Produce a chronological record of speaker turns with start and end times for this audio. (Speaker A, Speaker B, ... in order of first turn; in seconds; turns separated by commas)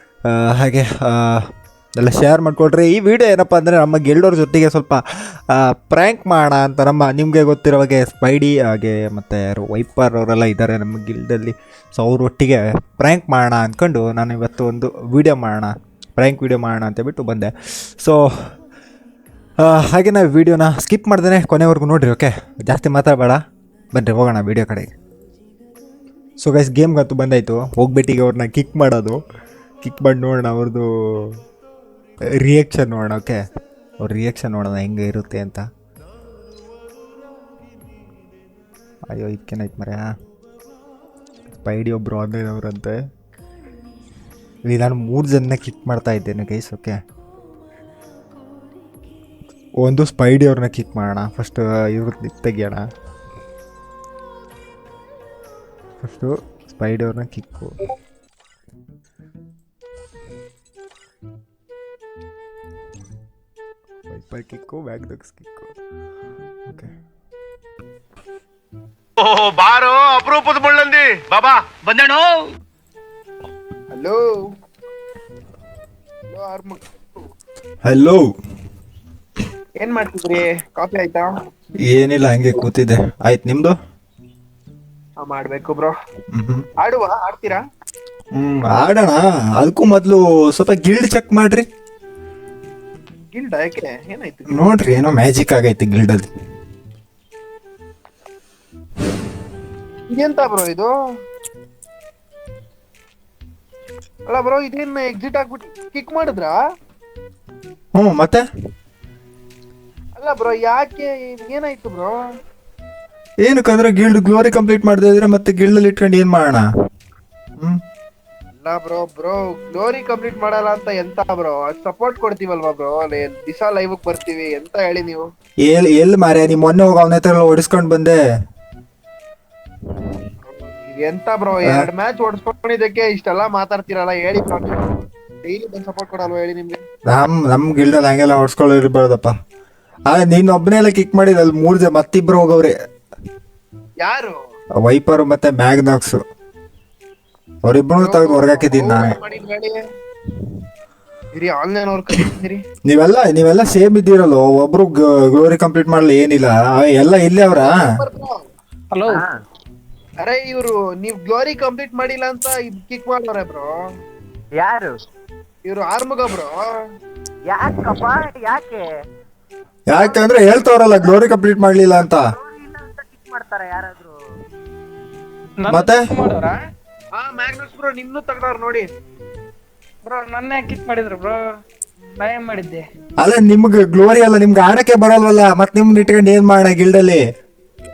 Speaker A: 0.3-1.4, Speaker A: 2.0-18.2, Speaker A: 19.6-23.4, Speaker A: 23.9-24.9, Speaker A: 26.4-29.2, Speaker A: 29.8-31.4, Speaker A: 32.4-33.4, Speaker A: 34.0-35.7, Speaker A: 39.1-40.1, Speaker A: 41.5-43.0, Speaker A: 44.7-47.0, Speaker A: 49.8-52.9, Speaker A: 56.0-57.8, Speaker A: 64.1-65.7, Speaker A: 66.7-66.9, Speaker B: 69.2-72.4, Speaker C: 73.9-74.5, Speaker C: 76.3-77.0, Speaker A: 77.8-78.2, Speaker C: 79.8-81.3, Speaker A: 81.9-83.8, Speaker C: 85.2-86.0, Speaker A: 86.3-86.7, Speaker C: 86.8-87.6, Speaker A: 88.4-91.7, Speaker C: 93.3-94.9, Speaker A: 94.5-96.3, Speaker C: 100.1-100.9, Speaker C: 104.3-106.6, Speaker A: 108.0-108.5, Speaker C: 110.2-112.1, Speaker A: 113.4-116.7, Speaker C: 118.6-125.2, Speaker A: 125.7-128.2, Speaker C: 130.5-134.9, Speaker C: 135.4-136.8, Speaker A: 137.1-139.3, Speaker A: 140.1-142.7, Speaker C: 144.0-144.4, Speaker A: 144.8-146.2, Speaker A: 147.7-149.1, Speaker C: 148.0-149.8, Speaker C: 151.4-152.6, Speaker A: 152.9-157.7, Speaker C: 157.5-158.4, Speaker D: 158.9-159.2, Speaker E: 159.1-159.3, Speaker C: 160.2-163.7, Speaker E: 164.6-164.9, Speaker C: 165.7-166.6, Speaker E: 167.5-168.9, Speaker A: 169.9-172.2, Speaker E: 170.0-170.3, Speaker E: 172.0-174.1, Speaker D: 175.7-176.6, Speaker A: 175.7-176.1, Speaker C: 177.2-178.9, Speaker D: 180.1-181.4, Speaker D: 182.2-182.8, Speaker A: 183.2-187.2